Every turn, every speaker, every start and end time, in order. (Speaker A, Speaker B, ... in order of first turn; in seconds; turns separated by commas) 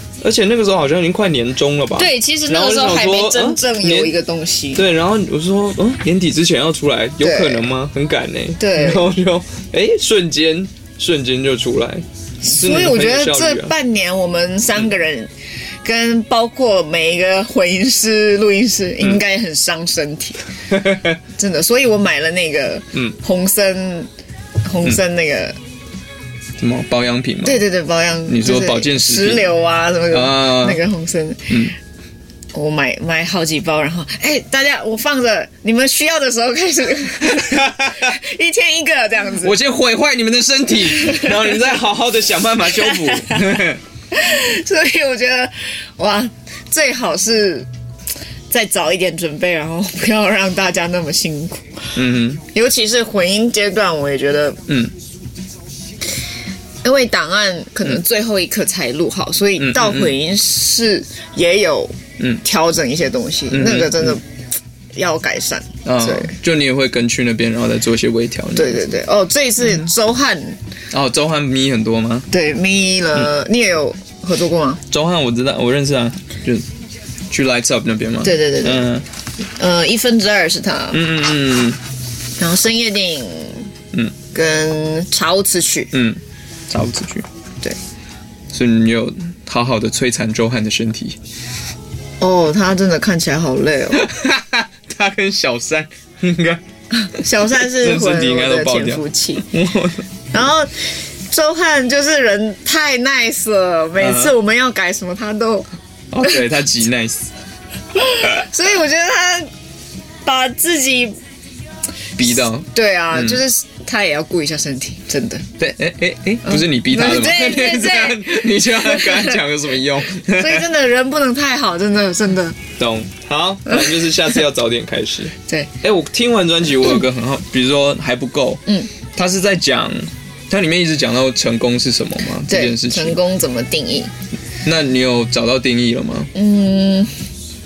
Speaker A: 0.2-4.1, Speaker B: 1.9-4.8, Speaker A: 4.7-13.7, Speaker B: 7.2-7.7, Speaker B: 8.6-9.1, Speaker B: 12.4-15.3, Speaker B: 15.8-20.4, Speaker A: 20.7-21.2, Speaker B: 21.3-24.1, Speaker B: 24.6-25.6, Speaker A: 26.6-27.6, Speaker B: 27.4-31.6, Speaker A: 28.3-29.5, Speaker A: 30.1-30.8, Speaker A: 31.5-31.7, Speaker B: 32.5-39.6, Speaker A: 37.3-38.1, Speaker A: 39.4-43.8, Speaker B: 40.9-41.5, Speaker B: 42.6-47.7, Speaker B: 48.5-51.9, Speaker A: 51.9-52.4, Speaker B: 52.5-54.6, Speaker A: 54.7-54.9, Speaker B: 56.8-64.2, Speaker A: 59.6-60.1, Speaker A: 63.5-64.2, Speaker B: 64.9-66.3, Speaker A: 65.8-68.9, Speaker B: 68.5-70.6, Speaker A: 70.9-72.3, Speaker B: 72.3-74.8, Speaker A: 74.9-76.7, Speaker A: 77.3-79.0, Speaker B: 78.2-78.9, Speaker B: 79.5-81.0, Speaker A: 80.9-81.8, Speaker B: 82.4-83.7, Speaker B: 84.3-85.9, Speaker A: 85.9-87.3, Speaker A: 88.5-91.2, Speaker B: 92.2-94.1, Speaker A: 93.9-96.6, Speaker B: 97.0-99.5, Speaker A: 97.5-100.1, Speaker B: 100.3-105.7, Speaker A: 104.0-104.3, Speaker A: 106.1-107.3, Speaker B: 107.9-109.5, Speaker B: 110.2-111.1, Speaker A: 112.2-113.4, Speaker B: 112.7-115.5, Speaker A: 115.6-120.7, Speaker B: 116.4-119.4, Speaker B: 120.2-122.6, Speaker A: 122.8-133.2, Speaker B: 132.5-134.1, Speaker A: 134.6-136.3, Speaker B: 136.3-137.1